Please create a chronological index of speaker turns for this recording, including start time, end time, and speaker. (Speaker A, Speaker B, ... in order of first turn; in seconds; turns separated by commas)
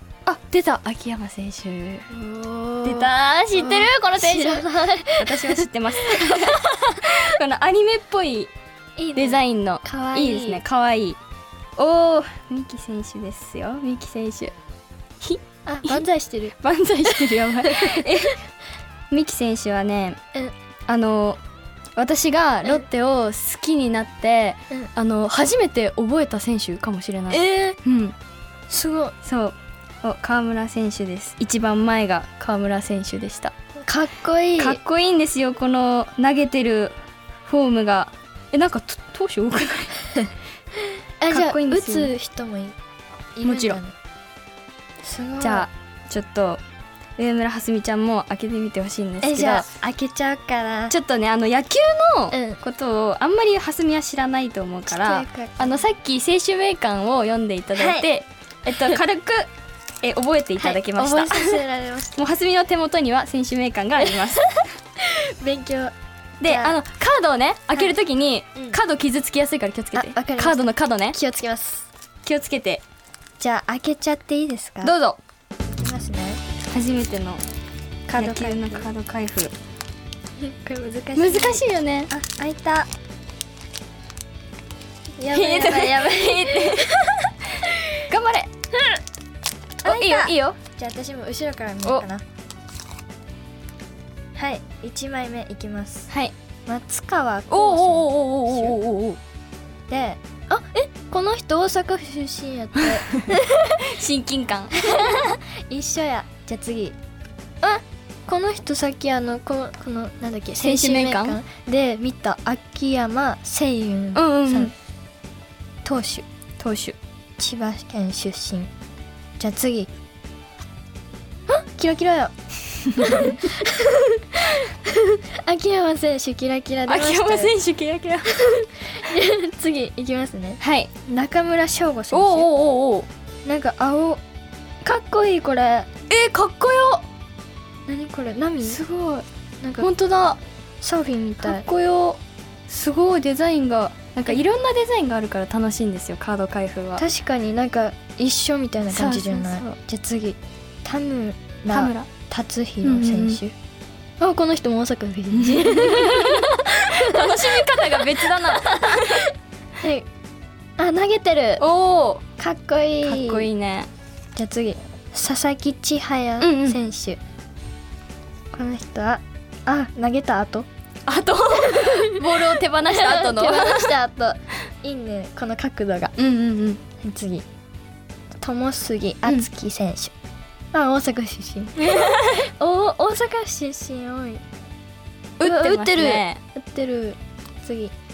Speaker A: 0.2-2.1, Speaker B: 2.1-7.0, Speaker A: 2.8-8.5, Speaker B: 9.0-10.6, Speaker A: 9.2-11.2, Speaker A: 11.8-14.5, Speaker A: 15.2-16.0, Speaker B: 15.7-16.5, Speaker A: 16.6-18.4, Speaker B: 17.4-18.3, Speaker A: 19.1-20.2, Speaker A: 20.9-21.4, Speaker A: 21.9-28.1, Speaker B: 27.3-27.8, Speaker B: 28.7-29.1, Speaker A: 29.2-33.5, Speaker B: 33.8-34.8, Speaker A: 34.6-36.9, Speaker A: 37.5-39.9, Speaker B: 41.2-42.8, Speaker A: 41.3-42.1, Speaker B: 43.4-43.9, Speaker A: 43.4-43.8, Speaker B: 45.0-45.7, Speaker A: 45.4-46.6, Speaker A: 47.2-49.7, Speaker B: 49.2-50.9, Speaker A: 50.9-59.5, Speaker B: 52.3-52.6, Speaker B: 54.9-55.8, Speaker B: 57.8-58.0, Speaker A: 60.0-61.6, Speaker B: 60.6-62.2, Speaker A: 62.2-64.5, Speaker B: 65.0-66.8, Speaker A: 66.4-71.2, Speaker B: 69.9-71.9, Speaker A: 72.2-72.8, Speaker B: 73.4-74.9, Speaker A: 74.8-75.2, Speaker B: 75.7-76.4, Speaker A: 76.6-77.4, Speaker B: 78.1-78.8, Speaker A: 78.1-79.5, Speaker B: 80.4-82.9, Speaker A: 81.2-82.1, Speaker B: 85.2-87.1, Speaker A: 85.3-87.3, Speaker A: 88.1-88.5, Speaker B: 89.8-92.2, Speaker A: 89.8-90.6, Speaker B: 94.3-96.1, Speaker B: 96.7-98.7, Speaker A: 97.5-99.2, Speaker B: 99.9-103.8, Speaker A: 103.8-105.1, Speaker B: 104.7-107.0, Speaker B: 107.6-114.7, Speaker A: 110.6-111.4, Speaker A: 114.1-114.7, Speaker B: 115.8-116.2, Speaker A: 116.6-117.0, Speaker B: 117.4-118.7, Speaker B: 119.4-119.9, Speaker B: 121.5-122.3, Speaker B: 122.9-127.5, Speaker A: 123.0-123.4, Speaker A: 126.9-128.5, Speaker B: 128.3-132.5, Speaker A: 130.6-130.9, Speaker A: 132.1-133.1, Speaker B: 133.4-134.2, Speaker B: 134.8-135.9, Speaker A: 136.1-137.0, Speaker B: 137.9-138.8, Speaker A: 138.6-139.2, Speaker B: 139.6-139.9, Speaker A: 139.8-140.4, Speaker B: 140.8-141.7, Speaker A: 141.4-147.0, Speaker B: 147.0-153.5, Speaker A: 148.9-149.8, Speaker A: 151.7-152.1, Speaker A: 152.8-153.4, Speaker B: 154.2-157.6, Speaker A: 155.3-159.2, Speaker B: 158.2-159.3, Speaker B: 159.8-160.1, Speaker B: 160.8-161.6, Speaker A: 161.6-162.2, Speaker B: 162.4-163.4, Speaker A: 163.0-163.9, Speaker B: 164.3-167.2, Speaker A: 166.4-166.8, Speaker B: 168.5-170.7, Speaker A: 171.1-173.9, Speaker B: 171.6-172.2, Speaker B: 172.8-176.1, Speaker A: 176.2-176.8, Speaker B: 177.0-177.4, Speaker B: 178.4-180.1, Speaker B: 180.7-184.4, Speaker A: 181.8-182.5, Speaker A: 185.4-186.4, Speaker B: 185.4-187.9